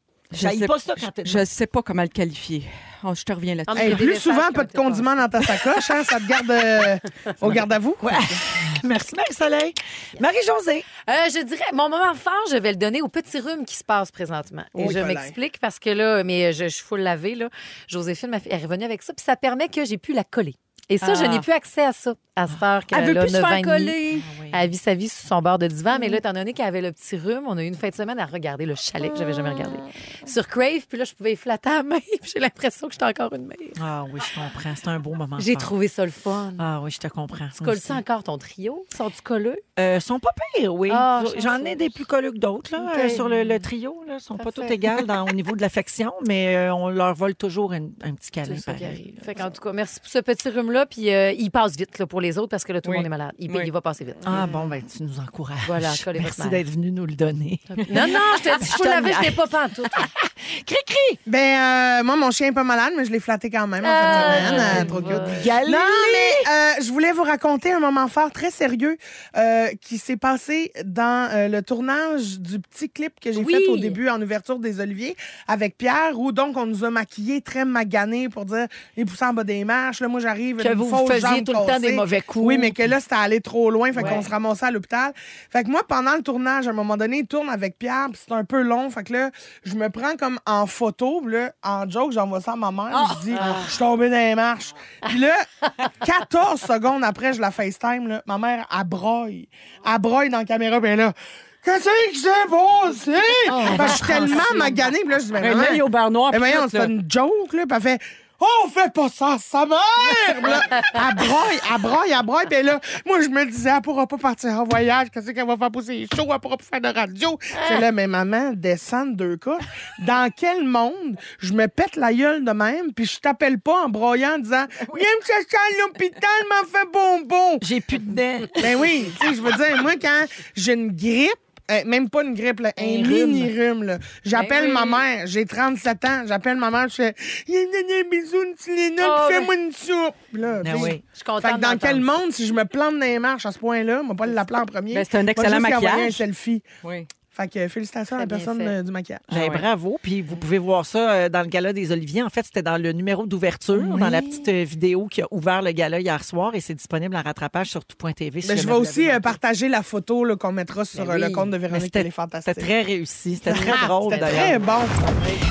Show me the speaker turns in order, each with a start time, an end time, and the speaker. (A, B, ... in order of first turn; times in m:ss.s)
0:00.3-0:01.5 A
0:00.3-0:04.1 B
0:03.7-0:05.3 C
0:03.8-0:08.4 D
0:08.0-0:10.8 A
0:11.0-0:24.0 C
0:14.8-0:15.3 D
0:21.0-0:21.4 B
0:22.9-0:24.3 B
0:24.1-0:24.7 A
0:24.5-0:33.8 C
0:33.8-0:35.7 A
0:35.4-0:36.6 C
0:36.6-0:38.0 A
0:37.6-0:39.6 C
0:39.8-0:49.5 A
0:40.9-0:41.9 C
0:42.8-0:43.6 C
0:44.4-0:44.8 C
0:48.4-0:54.5 C
0:52.8-0:53.7 B
0:54.2-1:01.2 A
0:55.6-0:56.6 C
0:57.7-1:00.1 C
1:01.2-2:07.6 D
1:03.8-1:05.4 C
1:04.1-1:06.5 A
1:13.3-1:14.0 C
1:20.6-1:22.9 A
1:23.9-1:24.2 A
1:24.0-1:24.2 C
1:32.9-1:33.4 B
1:33.3-1:33.8 C
1:43.4-1:44.7 A
1:43.6-1:44.0 C
1:45.4-1:46.9 B
2:07.6-2:08.8 A
2:08.6-2:26.6 D
2:12.8-2:13.5 A
2:14.3-2:15.0 C
2:19.0-2:19.5 C
2:20.6-2:21.0 A
2:21.1-2:22.2 C
2:24.9-2:26.2 B
2:26.8-2:27.1 B
2:27.3-2:29.3 D
2:28.1-2:28.8 C
2:29.3-2:39.4 A
2:29.3-2:29.6 B
2:33.7-2:34.4 D
2:38.4-2:42.7 D
2:40.9-2:41.5 C
2:41.7-2:44.6 A
2:43.5-2:45.0 D
2:43.6-2:45.4 C